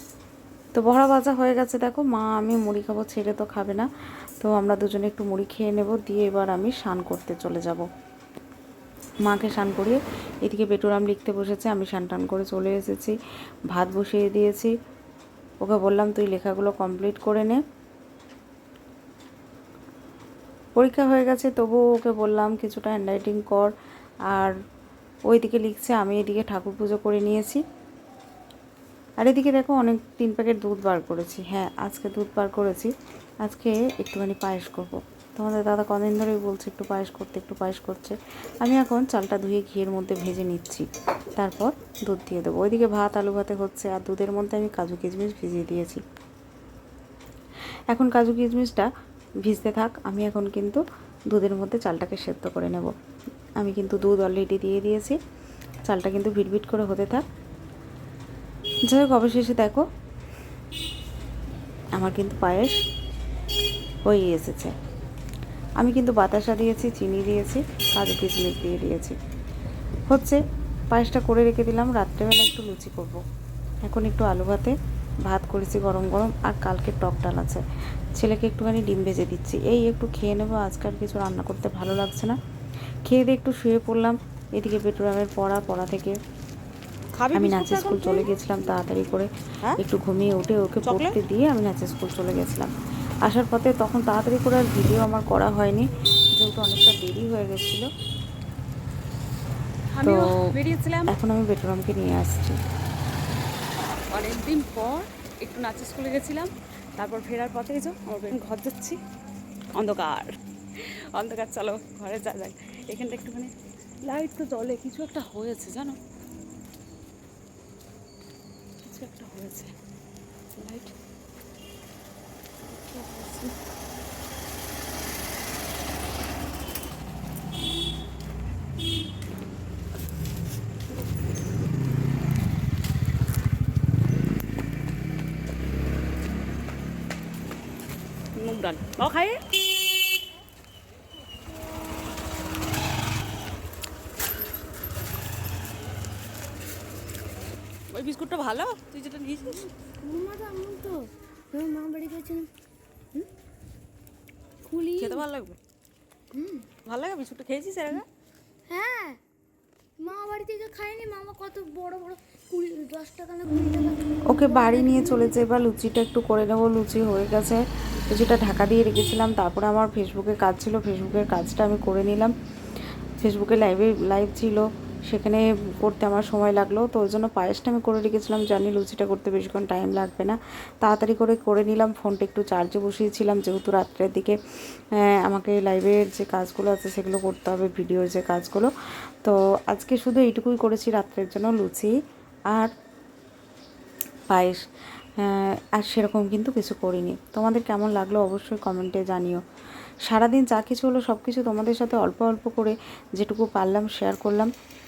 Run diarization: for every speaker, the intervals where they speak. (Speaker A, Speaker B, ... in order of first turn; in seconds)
Speaker A: 0.8-3.9, 4.4-7.8, 9.2-13.2, 13.7-14.7, 15.6-17.6, 20.8-23.7, 25.3-27.6, 29.2-32.9, 33.4-40.9, 41.4-46.0, 47.9-48.9, 49.4-52.9, 53.6-55.2, 55.9-57.2, 58.9-59.8, 62.0-62.7, 64.0-64.7, 65.8-69.2, 70.1-70.4, 70.9-73.2, 73.8-77.6, 78.1-82.3, 83.0-86.1, 87.3-92.7, 93.2-97.9, 100.0-100.3, 101.1-102.5, 164.3-172.3, 173.2-184.4, 185.0-188.7, 189.2-191.9, 194.3-194.6, 195.2-199.4, 200.1-204.5
Speaker B: 87.2-88.3, 90.8-91.2, 99.9-101.1, 104.1-109.0, 109.8-113.5, 114.0-116.0, 118.8-119.7, 120.5-120.9, 122.6-123.5, 138.4-139.4, 147.9-149.7, 155.0-155.6, 156.8-158.0
Speaker C: 149.5-152.5, 154.7-155.3, 156.3-156.7, 158.7-159.2, 160.0-165.4